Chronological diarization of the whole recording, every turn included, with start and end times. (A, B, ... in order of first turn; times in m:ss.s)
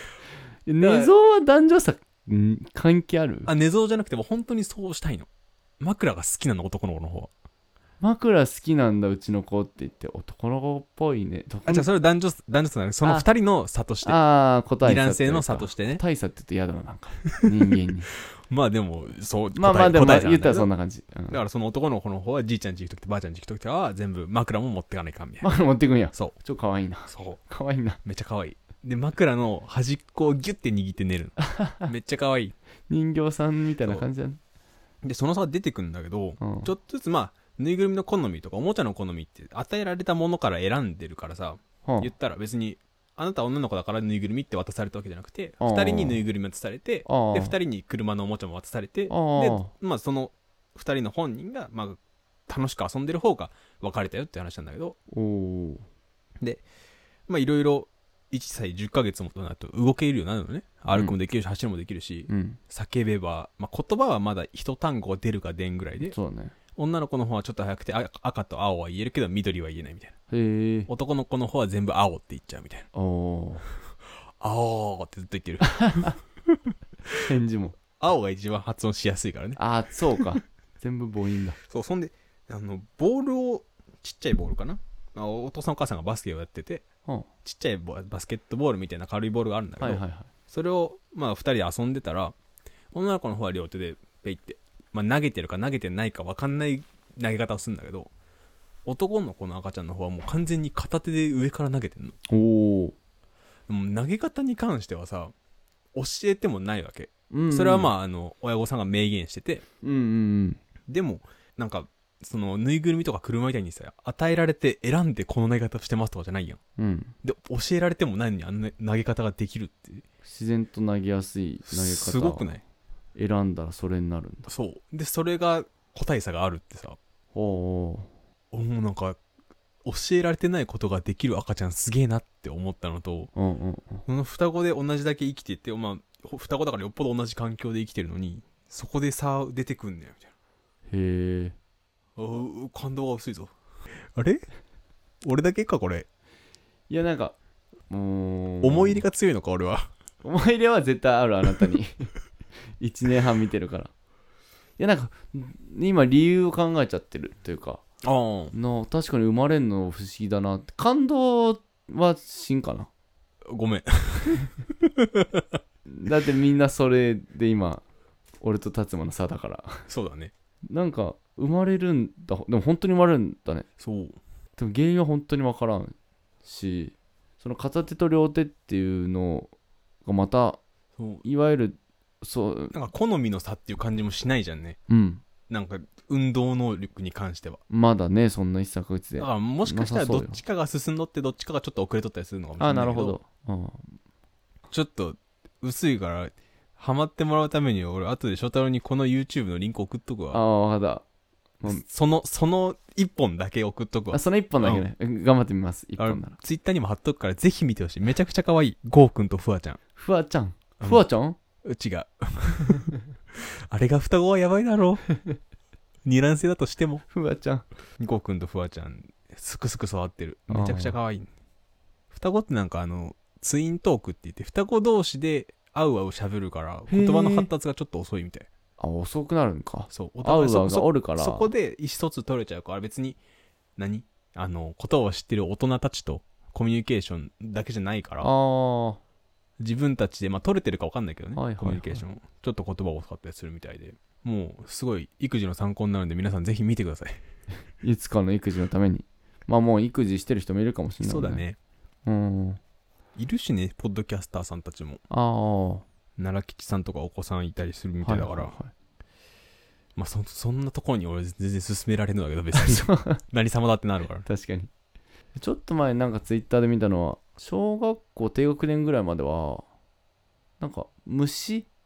0:00.6-0:03.5 A
0:00.8-0:01.1 B
0:03.4-0:05.3 B
0:05.8-0:07.3 B
0:08.0-0:11.9 A
0:11.6-0:14.2 B
0:14.0-0:18.1 A
0:14.8-0:16.0 B
0:18.5-0:20.7 B
0:19.5-0:21.4 A
0:21.3-0:25.5 B
0:25.4-0:28.0 A
0:27.1-0:27.4 B
0:28.0-0:32.5 B
0:31.5-0:31.9 A
0:32.9-0:34.4 A
0:35.0-0:55.0 B
0:36.4-0:36.7 A
0:41.8-0:42.1 A
0:45.6-0:46.2 A
0:47.0-0:47.6 A
0:49.1-0:49.7 A
0:55.1-0:55.8 A
0:57.3-1:06.1 B
1:02.3-1:02.6 A
1:06.0-1:06.5 A
1:06.8-1:10.1 B
1:10.3-1:10.9 A
1:10.9-1:12.9 B
1:12.9-1:13.6 A
1:14.4-1:17.1 B
1:15.8-1:16.1 A
1:17.2-1:17.8 A
1:18.0-1:19.6 B
1:19.6-1:21.6 A
1:21.7-1:26.8 B
1:27.4-1:32.3 B
1:29.8-1:30.3 A
1:32.9-1:38.1 B
1:38.8-1:42.2 B
1:42.3-1:42.9 A
1:43.7-1:45.3 B
1:45.9-1:49.6 B
1:47.3-1:47.9 A
1:49.8-1:50.6 A
1:50.9-1:56.6 B
1:56.8-1:57.1 A
1:57.2-2:00.0 B
2:00.2-2:02.6 A
2:01.6-2:02.6 B
2:03.1-2:04.5 A
2:04.4-2:07.0 B
2:07.3-2:08.1 A
2:08.5-2:09.2 B
2:09.8-2:13.3 B
2:13.3-2:14.0 A
2:14.0-2:20.3 B
2:20.9-2:21.6 A
2:22.2-2:23.5 B
2:24.1-2:24.4 B
2:25.2-2:26.1 B
2:26.9-2:27.4 A
2:27.9-2:29.0 A
2:28.6-2:29.9 B
2:30.2-2:32.1 A
2:32.8-2:33.9 A
2:34.8-2:37.8 A
2:38.0-2:38.5 B
2:38.5-2:42.9 A
2:43.5-2:45.6 B
2:45.9-2:47.8 A
2:48.4-2:49.9 A
2:49.9-2:50.3 B
2:50.7-2:53.7 A
2:53.8-2:54.2 B
2:54.6-2:59.5 A
3:00.0-3:00.6 A
3:01.0-3:01.2 B
3:01.2-3:02.7 A
3:02.7-3:04.8 B
3:04.9-3:05.2 A
3:05.5-3:07.6 B
3:07.7-3:10.4 A
3:09.2-3:13.2 B
3:12.6-3:14.0 A
3:14.7-3:20.4 B
3:20.3-3:21.0 A
3:21.6-3:24.8 B
3:24.1-3:26.4 A
3:26.0-3:29.8 B
3:30.0-3:31.4 A
3:31.6-3:35.0 B
3:36.0-3:37.0 B
3:37.1-3:37.6 A
3:38.0-3:41.3 B
3:40.5-3:41.0 A
3:42.1-3:48.5 B
3:46.9-3:47.5 A
3:48.8-3:51.5 A
3:49.9-3:53.2 B
3:53.8-3:58.3 B
3:58.2-3:59.0 A
3:59.6-4:07.2 B
4:01.4-4:02.0 A
4:07.8-4:11.4 A
4:11.0-4:11.6 B
4:12.0-4:12.6 A
4:13.2-4:15.0 B
4:15.1-4:15.8 A
4:16.2-4:18.5 B
4:18.0-4:18.7 A
4:20.0-4:24.2 B
4:22.5-4:23.2 A
4:24.2-4:24.7 A
4:25.4-4:29.6 A
4:30.6-4:31.7 A